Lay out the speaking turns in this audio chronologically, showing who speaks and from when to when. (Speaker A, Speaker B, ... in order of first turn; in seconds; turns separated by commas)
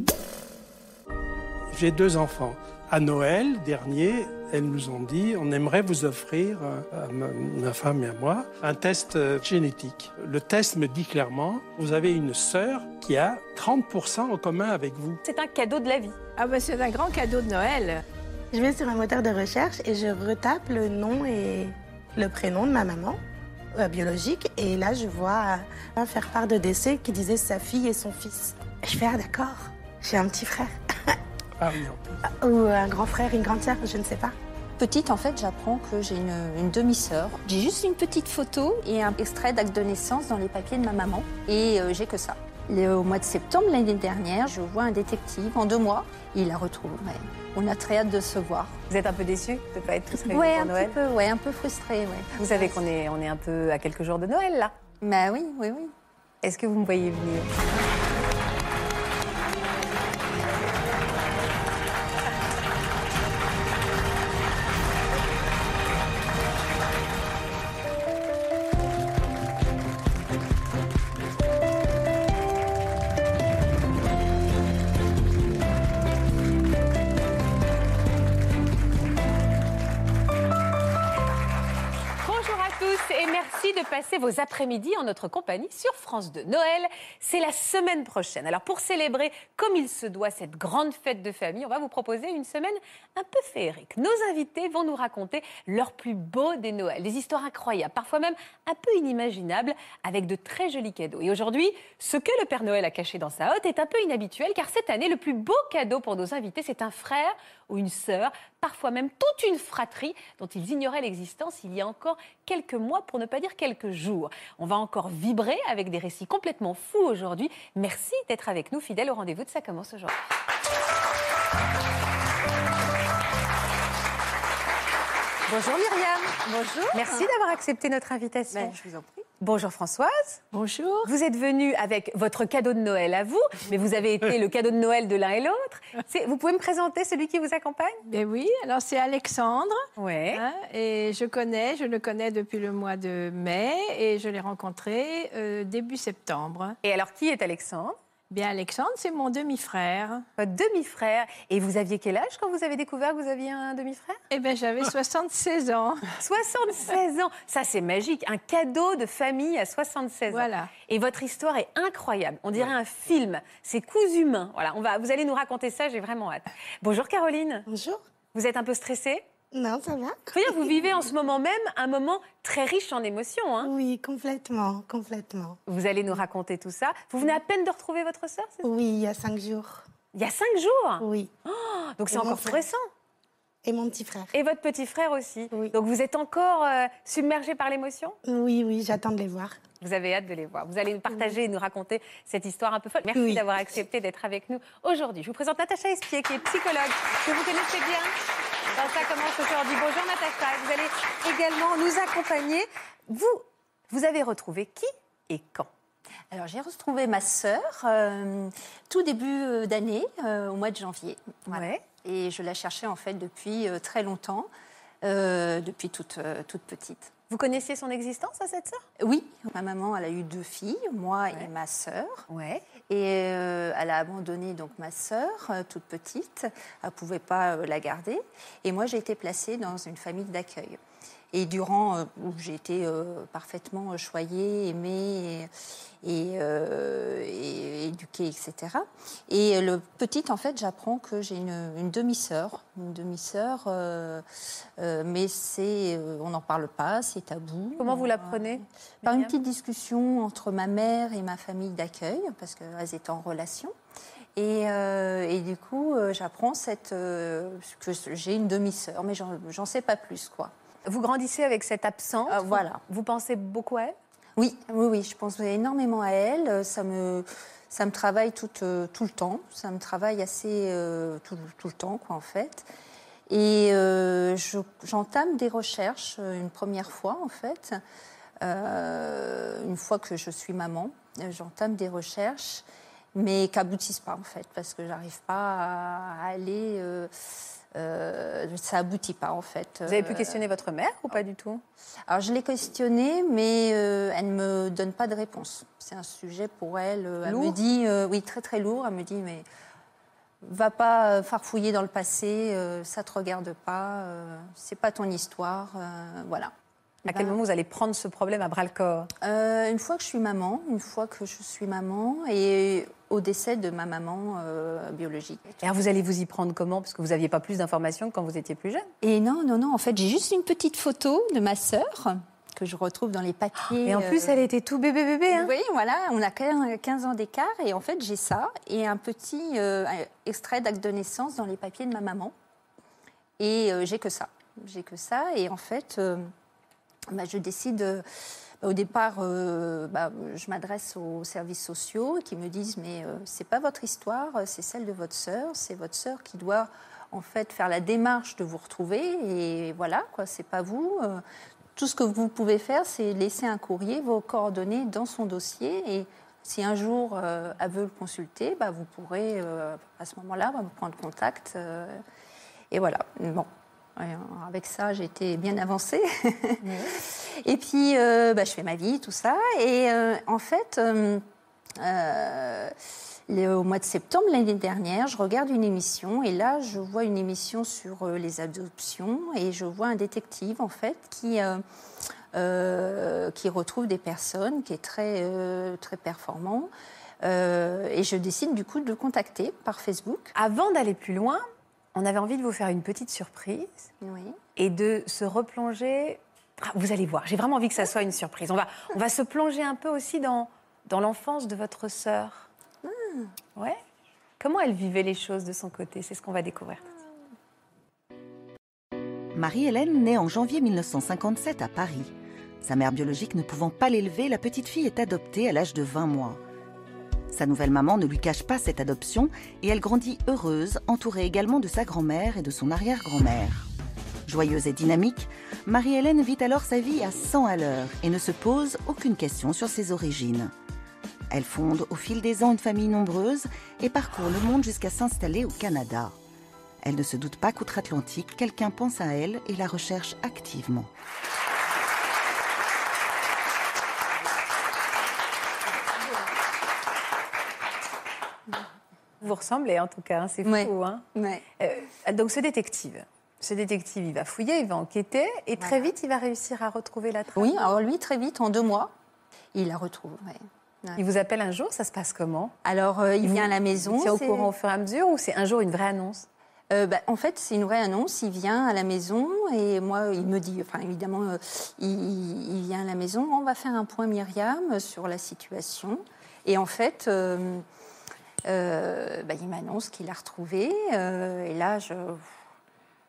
Speaker A: 1.7-15.2, Speaker B: 15.2-16.2, Speaker C: 16.4-18.0, Speaker D: 18.5-23.2, Speaker D: 23.8-31.2, Speaker A: 31.6-32.1, Speaker D: 32.3-34.4, Speaker E: 34.8-48.8, Speaker B: 48.9-51.0, Speaker E: 50.3-52.8, Speaker B: 52.4-54.7, Speaker E: 55.0-55.9, Speaker B: 56.4-57.5, Speaker B: 82.2-120.2, Speaker B: 125.5-128.8, Speaker E: 126.5-127.3, Speaker E: 128.5-129.2, Speaker B: 129.4-130.4, Speaker C: 130.5-131.1, Speaker B: 131.0-138.0, Speaker C: 138.1-139.8, Speaker B: 140.0-140.4, Speaker C: 140.3-146.8, Speaker B: 146.8-148.0, Speaker C: 148.3-150.2, Speaker B: 150.4-154.2, Speaker C: 154.3-156.1, Speaker B: 156.2-167.7, Speaker C: 160.3-160.7, Speaker D: 167.7-168.0, Speaker B: 168.3-169.2, Speaker D: 169.5-170.8, Speaker B: 170.3-173.7, Speaker D: 173.6-175.6, Speaker B: 175.7-178.7, Speaker D: 178.6-179.8, Speaker B: 180.1-182.8, Speaker D: 181.0-181.3, Speaker D: 182.1-182.6, Speaker D: 183.7-184.3, Speaker B: 184.3-188.2, Speaker D: 188.2-189.6, Speaker B: 189.8-198.1, Speaker D: 193.1-193.4, Speaker B: 198.7-205.7, Speaker E: 206.3-214.5, Speaker B: 211.5-211.8, Speaker E: 215.0-217.1, Speaker B: 217.3-218.8, Speaker E: 219.0-222.3, Speaker B: 222.3-222.6, Speaker E: 222.9-230.8, Speaker E: 231.3-235.5, Speaker E: 236.0-244.3, Speaker E: 244.8-253.8, Speaker B: 247.8-249.3, Speaker E: 254.4-260.5, Speaker B: 260.9-264.0, Speaker E: 262.3-262.8, Speaker E: 264.4-272.7, Speaker E: 273.3-277.8, Speaker E: 278.4-290.4, Speaker B: 289.9-291.6, Speaker E: 292.1-299.5, Speaker B: 297.2-297.6, Speaker E: 300.4-306.5, Speaker E: 307.1-307.4, Speaker B: 307.1-309.1, Speaker E: 309.2-315.6, Speaker B: 315.6-318.9, Speaker E: 319.0-324.4, Speaker B: 323.8-325.5, Speaker E: 325.3-332.3, Speaker E: 333.4-336.3, Speaker E: 337.1-338.1, Speaker E: 338.6-351.2, Speaker E: 351.8-362.0, Speaker E: 362.7-371.2, Speaker B: 366.6-367.0, Speaker E: 371.8-372.8, Speaker E: 373.3-381.6, Speaker E: 382.3-390.3, Speaker B: 390.4-391.4, Speaker B: 391.9-393.9, Speaker E: 394.0-394.4, Speaker B: 394.6-402.5, Speaker E: 402.8-403.4, Speaker B: 404.4-406.8, Speaker F: 409.3-416.4, Speaker F: 417.3-423.7, Speaker F: 424.3-430.5, Speaker F: 431.3-436.1, Speaker F: 436.8-440.9, Speaker B: 449.2-451.1, Speaker E: 450.4-451.4, Speaker B: 451.6-457.6, Speaker E: 457.4-458.9, Speaker E: 459.5-461.0, Speaker B: 461.0-462.6, Speaker E: 462.6-464.5, Speaker B: 463.2-466.3, Speaker E: 466.7-477.6, Speaker E: 478.5-482.4